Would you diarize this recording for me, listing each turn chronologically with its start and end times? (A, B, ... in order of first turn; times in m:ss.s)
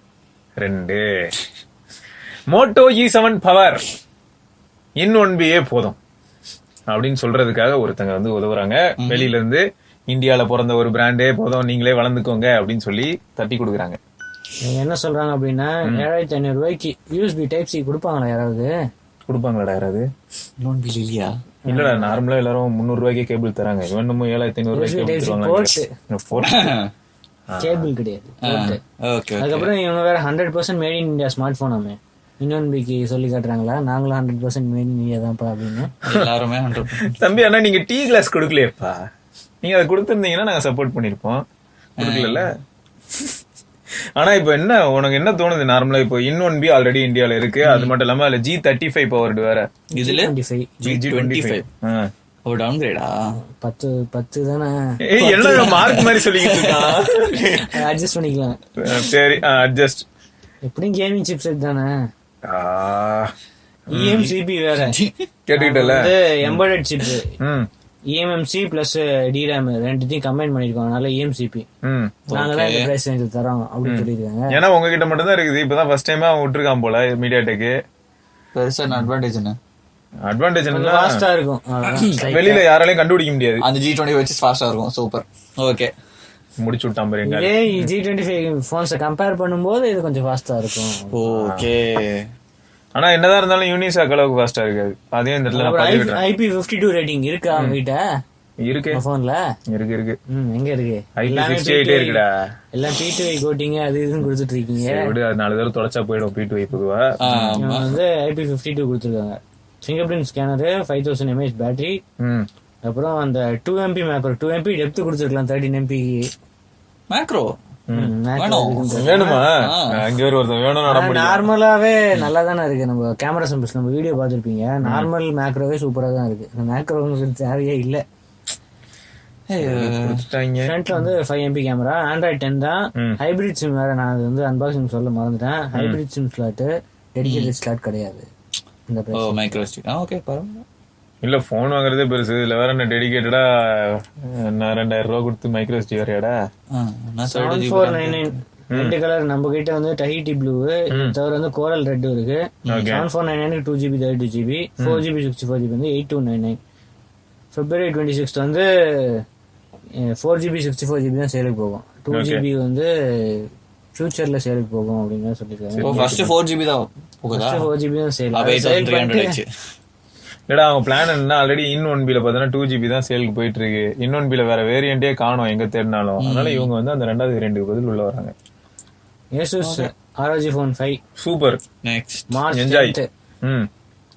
0:00.6-0:01.3 A
0:02.5-0:03.8 A
0:05.0-0:06.0 A
0:06.9-0:14.0 A
0:09.0-0:09.3 B
0:14.6-0:18.7 C
0:19.2-0:20.0 A
0:20.6-0:21.3 B
0:21.6-0:22.2 C
0:21.7-0:26.7 A
0:24.7-0:25.9 C
0:26.4-0:26.9 B
0:27.5-0:27.9 A
0:27.6-0:28.8 C
0:28.4-0:29.7 B
0:29.4-0:35.9 C
0:36.0-0:37.1 B
0:36.9-0:39.0 A
0:39.6-0:41.4 A
0:42.0-0:42.5 B
0:42.0-0:42.5 A
0:44.2-0:49.7 A
0:47.6-0:47.9 B
0:49.9-0:50.8 C
0:50.0-0:51.6 B
0:50.8-0:52.1 A
0:52.4-0:53.4 B
0:53.6-0:56.0 C
0:55.0-0:57.7 A
0:55.2-0:57.6 B
0:57.6-0:58.6 C
0:58.8-1:00.0 A
1:00.6-1:01.9 C
1:02.4-1:03.3 A
1:03.9-1:05.0 C
1:03.9-1:04.3 A
1:04.7-1:05.2 B
1:05.5-1:06.6 A
1:05.6-1:07.3 C
1:07.4-1:07.7 A
1:08.1-1:11.6 C
1:11.8-1:12.3 A
1:12.3-1:12.9 B
1:12.3-1:14.5 C
1:13.8-1:17.7 A
1:18.5-1:19.6 B
1:20.3-1:21.2 A
1:20.7-1:22.6 C
1:22.1-1:23.6 A
1:23.6-1:25.9 B
1:26.6-1:27.9 A
1:27.2-1:31.2 C
1:31.1-1:32.2 B
1:31.3-1:31.7 A
1:33.0-1:36.2 A
1:35.5-1:38.0 C
1:38.6-1:39.0 A
1:38.9-1:39.4 C
1:39.7-1:40.2 A
1:40.3-1:42.2 C
1:41.2-1:42.4 A
1:42.7-1:45.1 C
1:44.8-1:47.7 A
1:47.2-1:48.0 B
1:47.6-1:52.0 C
1:52.2-1:52.5 A
1:52.8-1:56.3 C
1:57.1-1:57.5 B
1:57.9-1:59.5 C
1:58.4-2:00.0 B
1:58.9-2:01.5 A
2:00.9-2:08.0 C
2:04.8-2:05.1 A
2:09.5-2:10.2 B
2:09.6-2:10.8 A
2:10.6-2:18.2 C
2:17.2-2:17.5 B
2:18.9-2:19.5 C
2:19.1-2:20.6 B
2:21.2-2:26.3 A
2:26.7-2:28.2 B
2:27.3-2:36.6 C
2:28.7-2:29.0 A
2:32.7-2:33.0 A
2:37.5-2:39.2 C
2:40.1-2:46.2 C
2:42.1-2:42.4 A
2:45.7-2:46.3 A
2:45.8-2:47.7 B
2:47.3-2:49.4 C
2:48.3-2:49.5 B
2:50.5-2:58.3 A
2:56.2-2:56.7 B
2:59.4-3:01.0 C
2:59.6-2:59.9 B
3:01.2-3:01.6 A
3:01.8-3:02.3 B
3:02.3-3:03.0 C
3:02.5-3:03.7 A